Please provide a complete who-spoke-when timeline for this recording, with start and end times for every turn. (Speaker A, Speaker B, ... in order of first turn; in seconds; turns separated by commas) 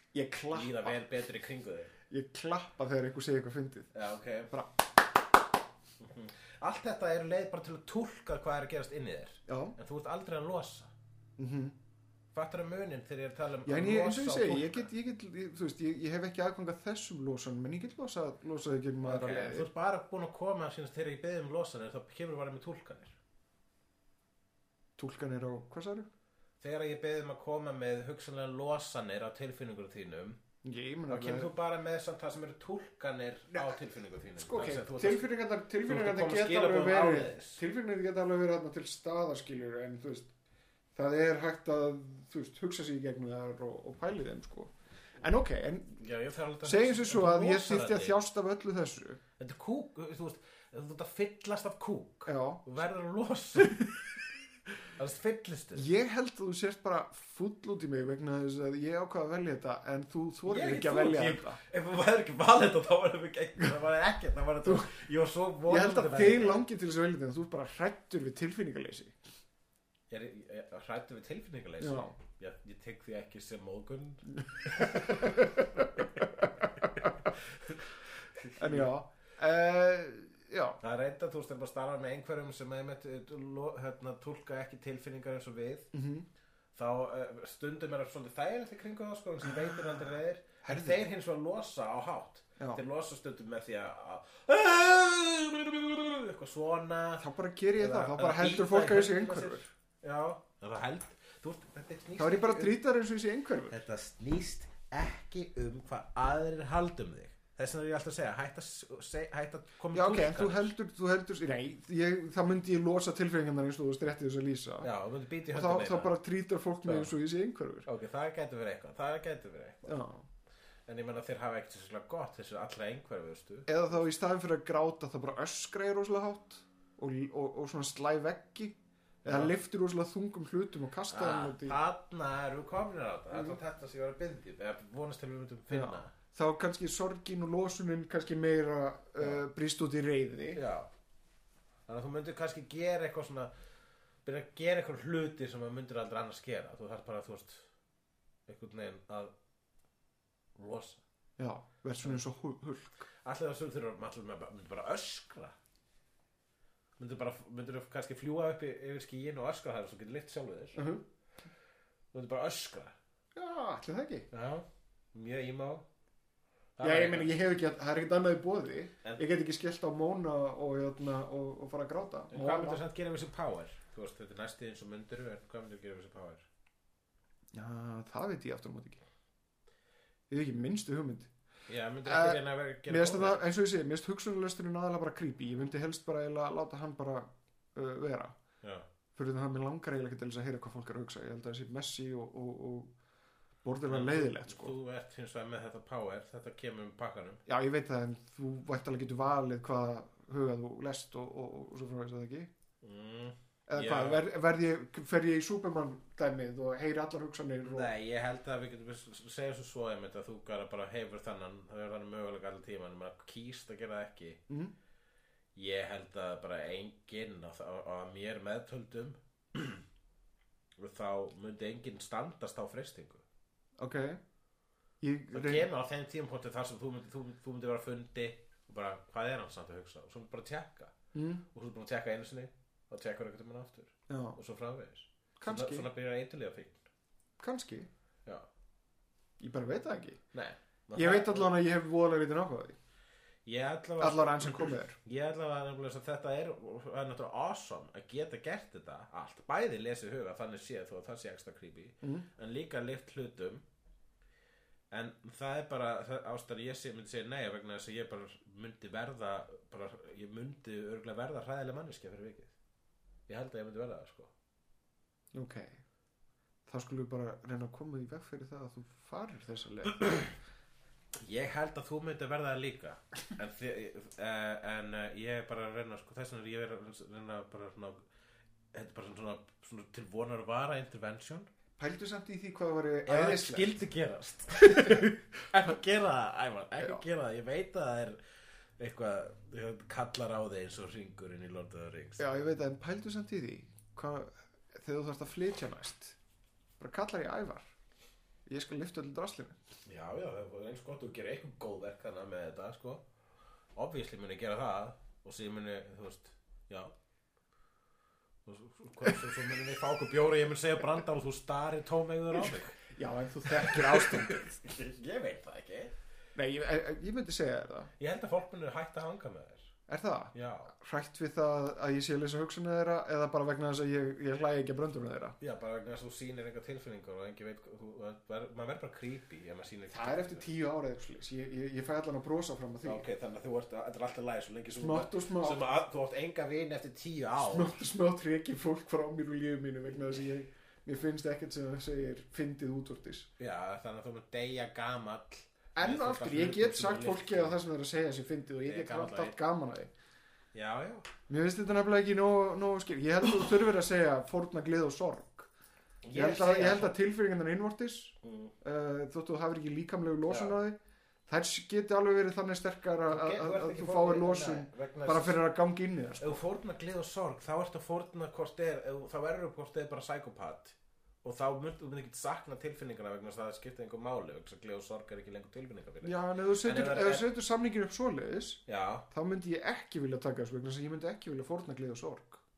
Speaker A: 0.1-1.0, Speaker B: 0.5-1.9, Speaker A: 2.1-3.9, Speaker B: 3.9-4.5, Speaker B: 6.0-10.9, Speaker A: 9.5-9.7, Speaker A: 11.4-11.8, Speaker B: 12.3-14.9, Speaker A: 13.6-19.7, Speaker B: 19.0-23.2, Speaker A: 25.0-26.1, Speaker B: 26.6-30.4, Speaker A: 30.6-31.5, Speaker B: 31.1-35.3, Speaker A: 34.4-40.3, Speaker B: 35.9-37.6, Speaker A: 40.9-46.0, Speaker B: 46.0-48.2, Speaker A: 46.6-49.2, Speaker B: 49.4-53.9, Speaker A: 52.2-52.6, Speaker B: 55.0-55.9, Speaker A: 55.7-61.6, Speaker B: 60.5-66.7, Speaker A: 64.6-64.9, Speaker A: 65.7-69.2, Speaker B: 70.1-75.5, Speaker A: 71.8-72.1, Speaker A: 74.6-75.9, Speaker B: 77.0-78.9, Speaker A: 78.6-80.8, Speaker B: 80.8-85.9, Speaker A: 85.9-86.3, Speaker B: 86.7-97.2, Speaker A: 90.6-91.0, Speaker A: 97.2-99.7, Speaker B: 97.8-102.8, Speaker A: 102.2-103.8, Speaker B: 103.7-110.7, Speaker A: 109.9-114.9, Speaker B: 114.8-116.1, Speaker A: 115.5-117.9, Speaker B: 116.8-117.1, Speaker B: 117.8-120.0, Speaker A: 119.8-120.3, Speaker B: 120.9-123.7, Speaker A: 123.7-131.8, Speaker B: 129.2-129.5, Speaker B: 131.1-136.1, Speaker A: 133.3-133.6, Speaker A: 135.7-140.6, Speaker B: 140.5-140.9, Speaker B: 141.9-143.5, Speaker B: 144.2-147.7, Speaker B: 148.5-149.3, Speaker B: 150.6-151.0, Speaker A: 151.4-153.1, Speaker B: 153.2-155.5, Speaker B: 157.0-160.8, Speaker A: 160.7-161.0, Speaker B: 162.1-162.9, Speaker A: 163.3-164.3, Speaker B: 164.3-165.8, Speaker B: 166.8-167.3, Speaker A: 166.8-172.8, Speaker B: 172.3-176.4, Speaker A: 177.5-179.0, Speaker A: 180.3-181.3, Speaker B: 181.7-183.4, Speaker A: 182.0-188.4, Speaker A: 189.2-192.9, Speaker A: 193.6-194.7, Speaker B: 193.9-197.4, Speaker A: 197.5-202.5, Speaker B: 202.8-204.2, Speaker A: 203.7-207.9, Speaker B: 207.6-214.4, Speaker B: 215.6-219.8, Speaker B: 220.8-223.2, Speaker A: 223.8-224.2, Speaker A: 225.0-225.7, Speaker B: 225.3-230.9, Speaker A: 231.1-231.4, Speaker B: 231.5-236.8, Speaker A: 234.1-234.4, Speaker A: 235.4-235.9, Speaker A: 237.4-237.9, Speaker A: 239.4-240.2, Speaker B: 240.3-241.5, Speaker A: 240.9-242.8, Speaker B: 243.4-253.6, Speaker A: 244.0-244.9, Speaker A: 252.0-252.3, Speaker B: 254.9-262.5, Speaker B: 263.3-264.3, Speaker A: 265.3-265.8, Speaker A: 266.6-270.3, Speaker B: 271.2-278.0, Speaker B: 278.7-281.5, Speaker A: 281.8-283.7, Speaker B: 283.1-288.2, Speaker A: 284.6-285.1, Speaker A: 286.8-287.0, Speaker B: 288.8-292.4, Speaker A: 292.2-296.2, Speaker A: 296.8-297.7, Speaker A: 298.5-299.6, Speaker B: 299.9-303.0, Speaker B: 303.8-306.9, Speaker B: 308.4-312.8, Speaker A: 312.4-314.6, Speaker B: 313.6-315.9, Speaker A: 316.3-317.9, Speaker B: 318.0-319.7, Speaker A: 319.9-325.4, Speaker B: 320.3-320.7, Speaker B: 325.4-330.5, Speaker A: 329.9-333.0, Speaker B: 332.8-337.7, Speaker A: 334.8-335.6, Speaker A: 337.4-343.3, Speaker B: 343.4-347.6, Speaker A: 345.8-349.9, Speaker B: 348.6-349.4, Speaker B: 350.5-351.1, Speaker A: 351.3-355.5, Speaker B: 356.0-356.9, Speaker A: 356.1-366.4, Speaker B: 358.2-358.5, Speaker B: 360.3-360.6, Speaker B: 363.1-365.4, Speaker B: 366.2-377.3, Speaker A: 376.0-382.4, Speaker B: 378.7-379.1